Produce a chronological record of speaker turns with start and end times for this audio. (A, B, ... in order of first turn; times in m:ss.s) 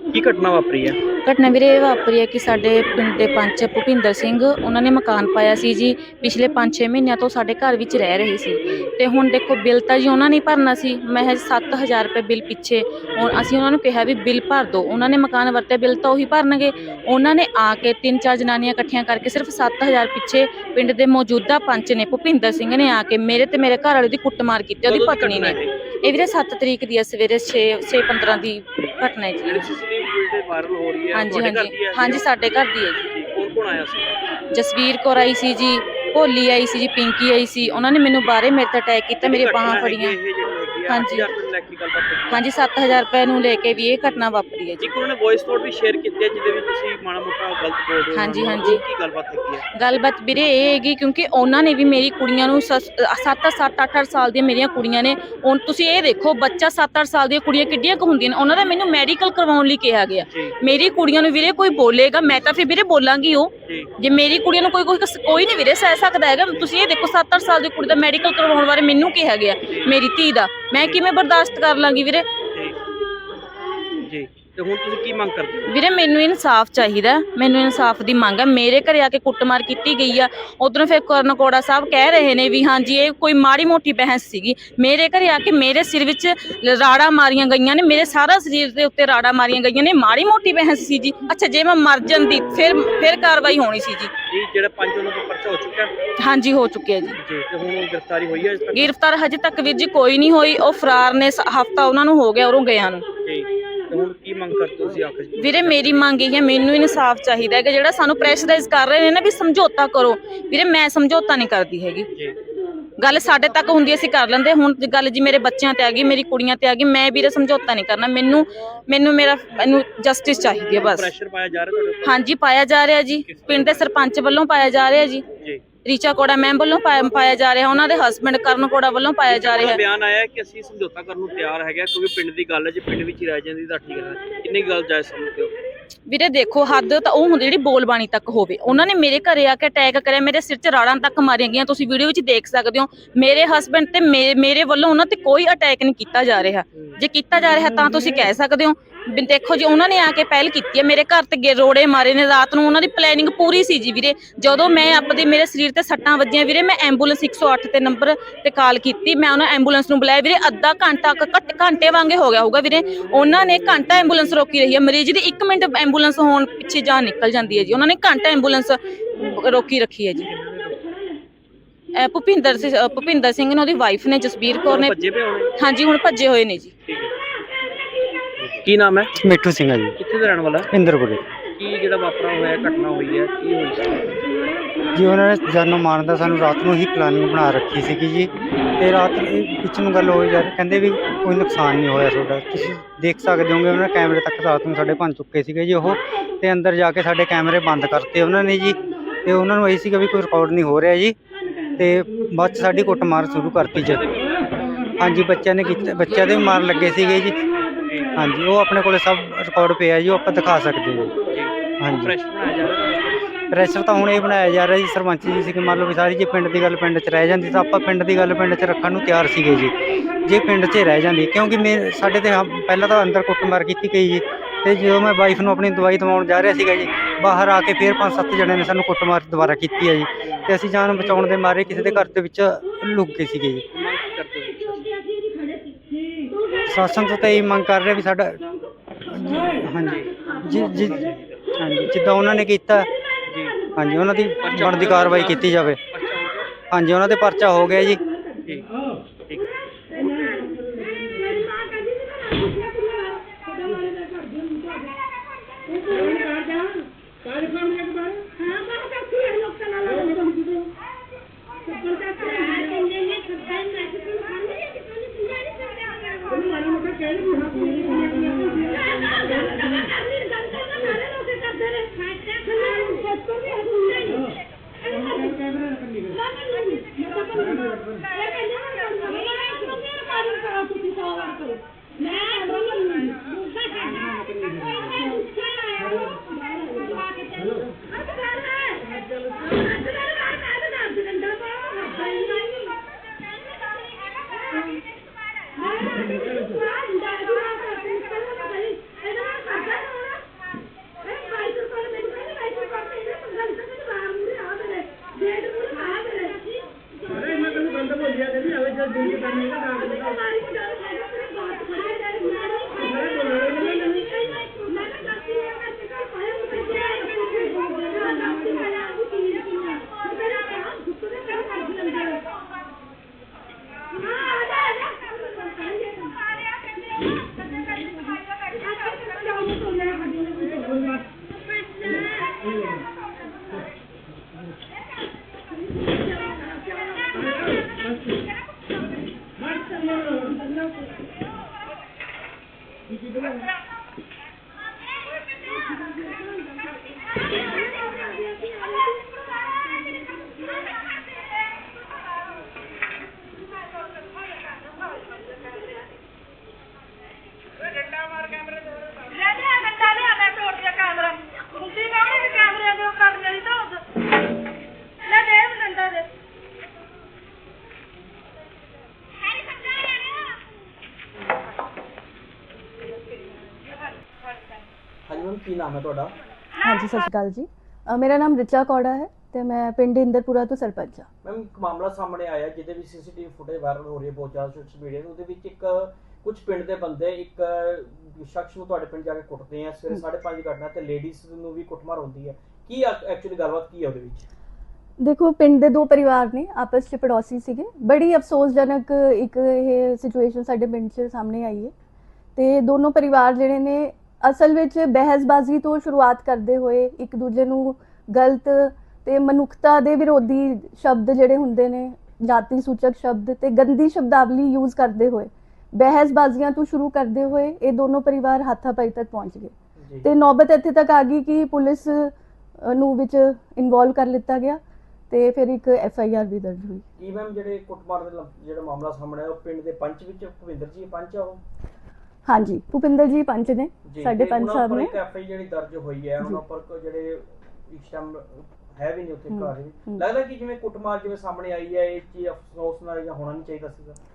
0:00.1-0:01.0 A
0:01.0-0:29.7 B
0:08.6-0:08.9 A
0:16.7-0:17.0 A
0:24.8-0:25.7 A
0:28.8-0:32.2 A
0:31.1-0:33.1 B
0:33.0-0:34.3 A
0:34.5-0:40.2 B
0:37.6-0:37.9 A
0:39.2-0:42.4 A
0:40.9-0:41.3 B
0:42.3-0:44.9 B
0:44.8-0:49.6 A
0:48.1-0:48.8 B
0:49.8-1:12.3 B
1:03.6-1:03.9 A
1:09.7-1:09.9 A
1:14.0-1:15.7 A
1:15.7-1:34.1 B
1:34.3-1:35.9 A
1:36.2-1:37.2 B
1:37.2-1:38.9 A
1:38.7-1:43.1 B
1:43.2-1:46.2 A
1:45.4-1:52.1 B
1:52.1-1:52.4 A
1:53.0-2:01.1 B
2:00.6-2:02.2 A
2:02.0-2:05.2 B
2:03.3-2:04.0 A
2:05.8-2:09.8 B
2:09.3-2:15.5 A
2:16.1-2:50.2 B
2:50.2-2:50.8 A
2:51.9-2:54.9 B
2:54.5-2:55.5 A
2:55.6-2:56.7 B
2:56.9-2:57.1 A
2:58.4-2:59.1 A
2:59.2-3:00.0 C
3:00.0-3:00.7 A
3:00.7-3:01.2 C
3:01.5-3:04.1 A
3:04.9-3:21.2 C
3:21.8-3:24.0 C
3:23.7-3:25.3 A
3:25.0-3:27.4 C
3:26.0-3:28.1 A
3:28.2-3:31.1 C
3:31.3-3:33.3 A
3:31.8-3:32.1 C
3:33.5-3:53.6 C
3:50.2-3:51.1 A
3:51.7-3:52.0 A
3:53.7-3:55.0 A
3:56.7-3:58.4 C
3:59.1-4:01.0 C
3:59.8-4:01.5 A
4:01.6-4:02.9 C
4:03.3-4:03.6 A
4:03.8-4:05.8 C
4:04.4-4:06.5 A
4:06.7-4:08.0 C
5:14.2-5:14.7 A
6:15.1-6:16.1 A
6:16.6-6:21.1 D
6:21.2-6:34.3 A
6:35.0-6:41.7 D
6:42.4-6:59.5 D
6:59.8-7:00.1 A
7:00.0-7:06.8 D
7:07.0-7:11.4 A
7:12.3-7:14.9 D
7:13.8-7:24.0 A
7:19.3-7:20.0 D